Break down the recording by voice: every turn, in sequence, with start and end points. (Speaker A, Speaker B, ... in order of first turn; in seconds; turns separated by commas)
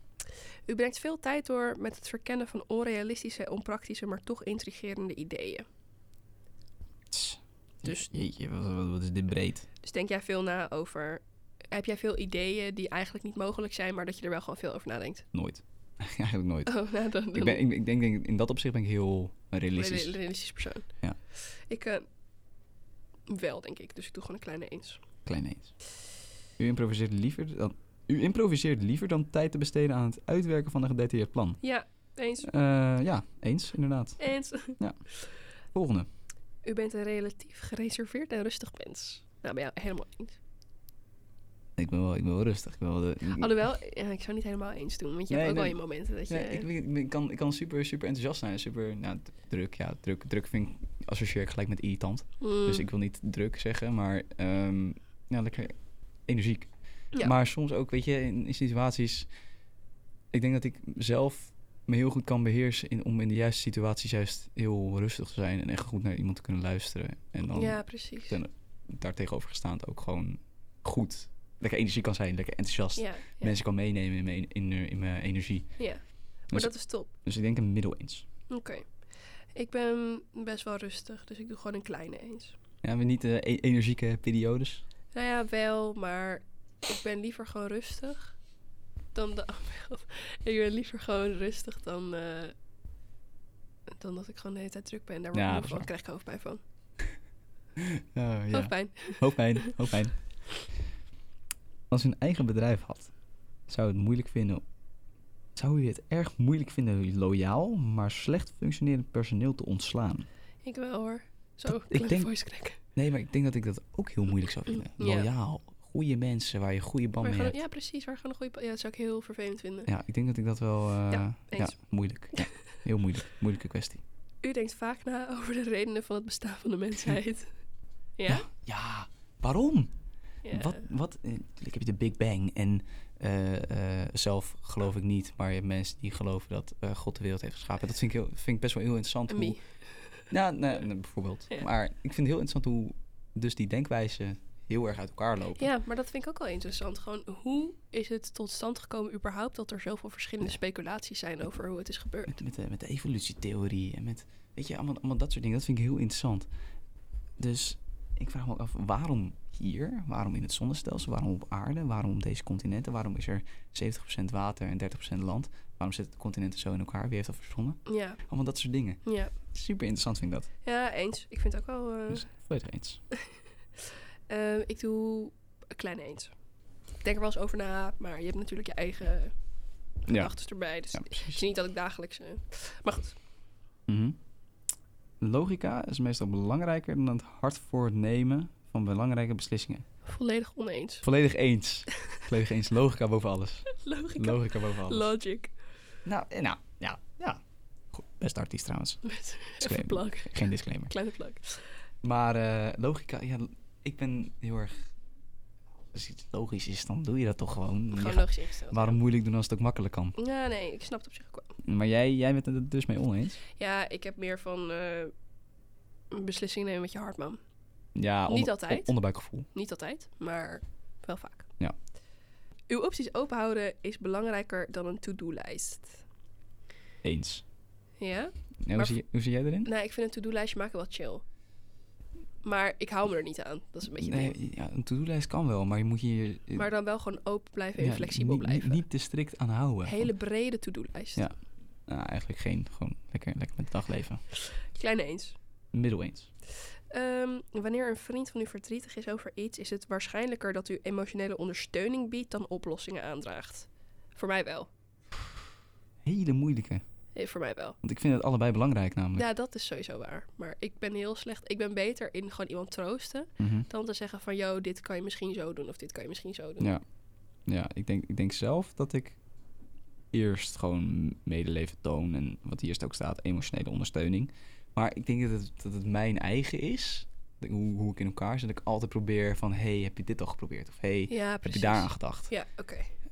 Speaker A: 0.7-5.7, Speaker B: 7.1-9.7, Speaker A: 9.8-15.2, Speaker B: 15.3-16.8, Speaker A: 16.7-17.6, Speaker B: 17.3-20.2, Speaker A: 19.7-20.9, Speaker A: 21.7-22.1, Speaker A: 23.3-25.0, Speaker B: 25.3-25.7, Speaker B: 26.6-31.6, Speaker A: 31.6-32.5, Speaker B: 32.4-35.0, Speaker A: 34.2-34.8, Speaker B: 35.7-36.1, Speaker A: 36.6-40.4, Speaker B: 41.8-43.6, Speaker A: 43.3-46.7, Speaker B: 45.3-45.8, Speaker B: 46.3-59.3, Speaker A: 52.4-52.9, Speaker B: 60.3-75.7, Speaker A: 67.5-68.4, Speaker A: 73.0-73.6, Speaker A: 75.8-77.1, Speaker B: 77.2-78.3, Speaker A: 78.5-78.9, Speaker A: 79.5-82.5, Speaker B: 82.8-84.8, Speaker A: 85.1-88.3, Speaker A: 89.2-92.5, Speaker A: 94.0-96.6, Speaker B: 95.3-95.9, Speaker B: 97.8-100.2, Speaker A: 98.5-99.8, Speaker B: 101.9-103.1, Speaker B: 103.7-104.6, Speaker B: 105.6-110.3, Speaker A: 110.6-112.8, Speaker B: 111.7-112.3, Speaker B: 113.0-117.6, Speaker A: 114.7-115.3, Speaker A: 117.2-119.9, Speaker B: 119.9-124.0, Speaker A: 121.1-121.8, Speaker A: 124.4-127.5, Speaker A: 128.2-128.5, Speaker B: 128.3-129.9, Speaker A: 130.4-130.8, Speaker B: 130.5-139.6, Speaker A: 139.3-140.3, Speaker B: 140.3-145.7, Speaker A: 145.6-152.4, Speaker B: 152.3-156.5, Speaker B: 157.4-170.5, Speaker A: 167.9-168.2, Speaker A: 169.1-169.3, Speaker A: 170.6-172.3, Speaker B: 172.1-173.0, Speaker A: 174.3-176.3, Speaker A: 177.0-179.3, Speaker A: 180.1-183.2, Speaker B: 180.1-180.3, Speaker B: 180.9-181.4, Speaker B: 183.9-184.2, Speaker B: 185.2-189.8, Speaker A: 190.1-191.0, Speaker B: 191.0-195.1, Speaker A: 193.7-195.5, Speaker B: 196.1-197.4, Speaker B: 197.9-199.0, Speaker A: 199.0-201.7, Speaker B: 199.6-200.9, Speaker B: 202.0-204.9, Speaker B: 205.9-210.2, Speaker A: 207.9-209.0, Speaker A: 210.2-211.6, Speaker B: 211.6-213.4, Speaker A: 213.6-215.1, Speaker A: 216.1-217.4, Speaker B: 217.9-219.5, Speaker A: 218.3-218.9, Speaker A: 219.5-221.5, Speaker A: 222.7-226.0, Speaker B: 227.0-227.4, Speaker A: 228.0-229.0, Speaker B: 228.6-229.7, Speaker A: 229.6-231.2, Speaker A: 232.4-234.4, Speaker B: 234.0-236.7, Speaker A: 236.6-238.8, Speaker B: 237.8-240.1, Speaker A: 239.9-241.3, Speaker B: 241.9-244.2, Speaker A: 244.5-245.4, Speaker B: 245.7-246.3, Speaker A: 246.9-254.7, Speaker B: 256.0-256.8, Speaker A: 257.2-257.8, Speaker B: 257.8-259.3, Speaker A: 259.1-266.7, Speaker B: 263.4-263.7, Speaker B: 267.5-269.2, Speaker B: 270.1-282.3, Speaker A: 281.1-282.9